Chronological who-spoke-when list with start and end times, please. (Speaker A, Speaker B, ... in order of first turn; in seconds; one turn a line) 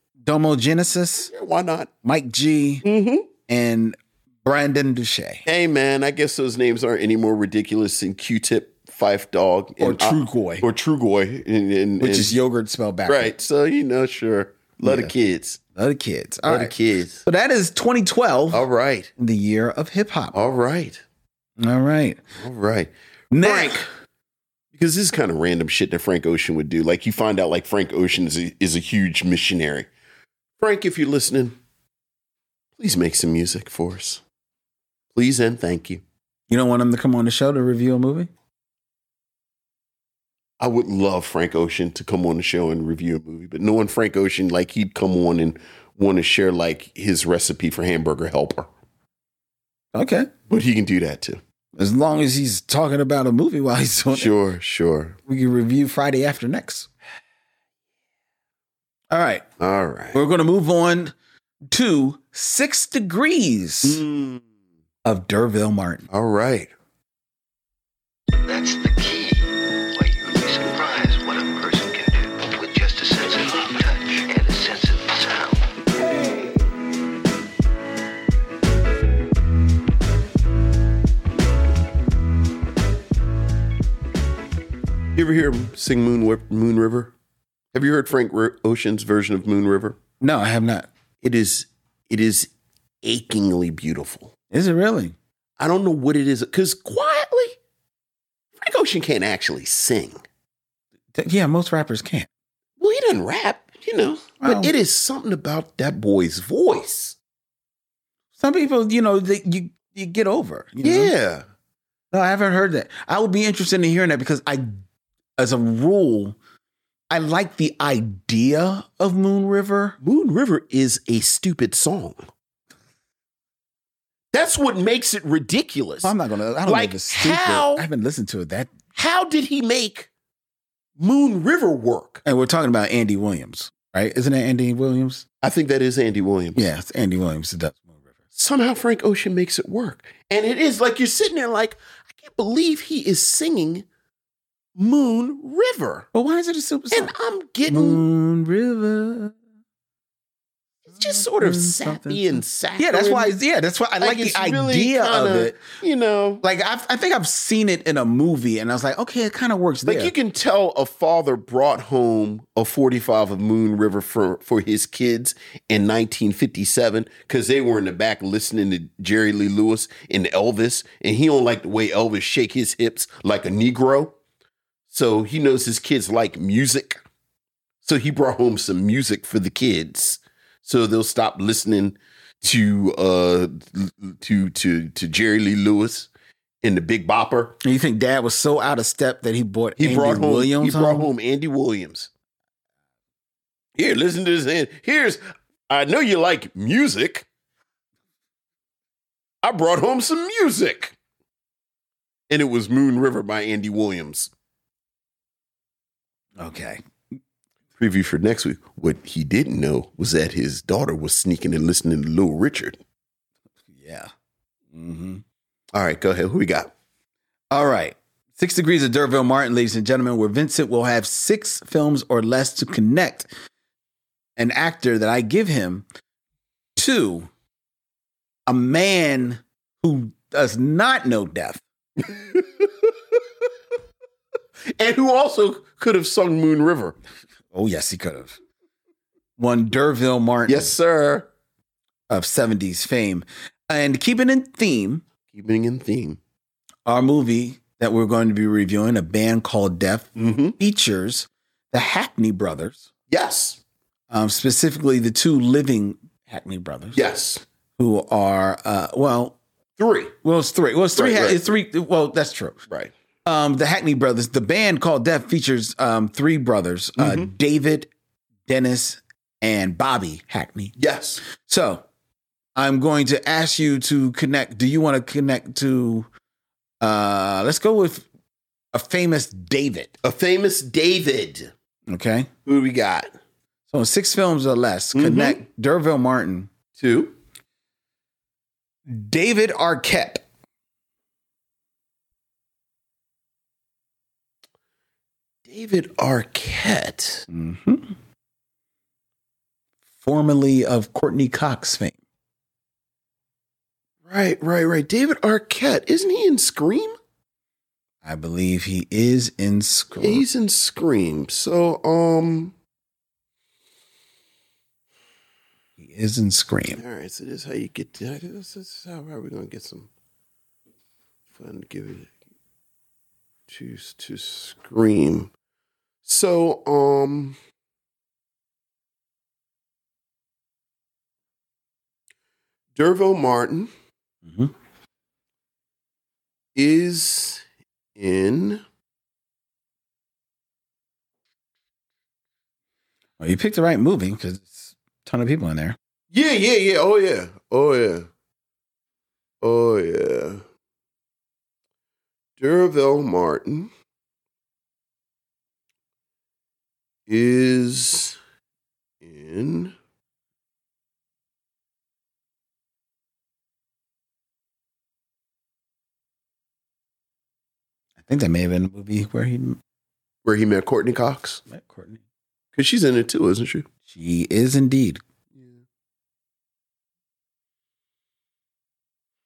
Speaker A: 0.2-1.3
Speaker B: 1.3-1.9
Speaker A: 2.0-2.8
Speaker B: 2.8-3.3
Speaker A: 3.5-5.4
Speaker B: 5.5-12.3
Speaker A: 9.8-10.7
Speaker A: 12.0-13.3
Speaker B: 13.1-15.6
Speaker A: 14.8-15.1
Speaker A: 15.8-16.7
Speaker B: 16.5-17.2
Speaker A: 17.2-18.6
Speaker B: 18.5-19.1
Speaker A: 19.2-20.4
Speaker B: 20.3-21.0
Speaker A: 21.6-22.2
Speaker B: 22.4-23.8
Speaker A: 23.3-23.9
Speaker B: 24.7-29.9
Speaker B: 30.6-31.6
Speaker B: 32.8-34.2
Speaker B: 35.1-36.0
Speaker A: 36.5-38.3
Speaker B: 40.6-48.7
Speaker A: 49.9-50.3
Speaker B: 50.5-51.4
Speaker A: 51.8-54.3
Speaker B: 54.1-55.2
Speaker A: 55.3-56.9
Speaker A: 59.1-59.4
Speaker B: 59.6-60.2
Speaker A: 60.1-61.1
Speaker A: 61.7-64.0
Speaker B: 63.8-64.4
Speaker A: 65.0-66.1
Speaker B: 66.1-66.7
Speaker C: 68.5-75.6
Speaker B: 85.1-87.1
Speaker B: 87.7-90.0
Speaker A: 90.2-90.9
Speaker B: 91.2-92.5
Speaker B: 93.0-94.3
Speaker A: 94.5-95.2
Speaker B: 95.6-97.6
Speaker B: 98.6-100.2
Speaker A: 101.1-102.3
Speaker B: 102.8-107.2
Speaker A: 104.4-104.7
Speaker A: 108.4-111.1
Speaker B: 110.8-111.4
Speaker A: 112.1-114.8
Speaker A: 115.4-116.4
Speaker A: 117.1-120.0
Speaker B: 120.0-122.2
Speaker B: 124.3-126.1
Speaker A: 126.0-128.8
Speaker B: 126.7-127.9
Speaker B: 128.9-130.1
Speaker B: 131.0-132.2
Speaker A: 132.2-135.2
Speaker B: 135.4-136.6
Speaker A: 136.5-138.0
Speaker B: 138.3-143.8
Speaker B: 144.8-146.1
Speaker A: 146.1-147.1
Speaker B: 146.9-148.0
Speaker A: 147.7-149.3
Speaker B: 150.9-153.3
Speaker A: 150.9-155.6
Speaker B: 154.0-156.4
Speaker A: 156.4-160.1
Speaker B: 159.8-174.2
Speaker B: 174.9-177.0
Speaker B: 177.8-186.1
Speaker B: 186.6-187.6
Speaker A: 187.6-191.1
Speaker B: 189.8-192.1
Speaker B: 193.8-197.2
Speaker B: 199.4-200.9
Speaker B: 202.3-204.3
Speaker A: 206.4-206.8
Speaker B: 207.8-212.8
Speaker A: 213.7-214.1
Speaker A: 214.7-215.2
Speaker B: 215.7-216.7
Speaker A: 217.5-223.3
Speaker A: 224.4-225.8
Speaker A: 226.8-227.3
Speaker A: 228.5-231.6
Speaker B: 232.0-232.9
Speaker B: 234.8-236.9
Speaker A: 237.5-238.4
Speaker A: 239.4-240.7
Speaker B: 240.5-241.3
Speaker A: 242.1-245.0
Speaker B: 245.3-246.2
Speaker A: 246.8-252.9
Speaker B: 250.2-250.6
Speaker B: 253.1-253.6
Speaker A: 254.1-257.0
Speaker B: 256.9-257.4
Speaker A: 257.8-259.4
Speaker B: 259.8-260.1
Speaker A: 260.2-262.6
Speaker B: 260.9-261.4
Speaker A: 263.2-267.9
Speaker B: 267.0-267.3
Speaker A: 268.5-270.7
Speaker B: 270.8-271.2
Speaker A: 271.2-271.8
Speaker A: 272.6-276.1
Speaker A: 276.8-278.1
Speaker A: 278.7-279.9
Speaker B: 280.0-281.5
Speaker A: 281.9-282.3
Speaker B: 282.4-283.1
Speaker A: 283.7-286.5
Speaker B: 284.9-285.4
Speaker B: 286.7-287.1
Speaker A: 288.9-290.2
Speaker B: 295.4-297.3
Speaker A: 297.3-297.9
Speaker A: 300.0-302.0
Speaker B: 304.1-306.9
Speaker A: 308.0-310.2
Speaker B: 310.0-312.5
Speaker A: 315.8-316.8
Speaker B: 316.7-319.9
Speaker B: 321.3-322.1
Speaker B: 323.5-325.3
Speaker B: 326.0-327.4
Speaker B: 332.7-333.7
Speaker A: 334.2-334.5
Speaker B: 336.5-337.4
Speaker B: 337.9-338.6
Speaker A: 343.2-345.8
Speaker B: 346.1-348.1
Speaker B: 349.4-350.4
Speaker B: 352.4-353.7
Speaker B: 357.1-358.2
Speaker B: 359.0-359.7
Speaker A: 368.0-369.6
Speaker B: 370.2-371.4
Speaker A: 371.5-372.0
Speaker B: 372.5-373.6
Speaker A: 373.9-375.0
Speaker B: 375.3-375.6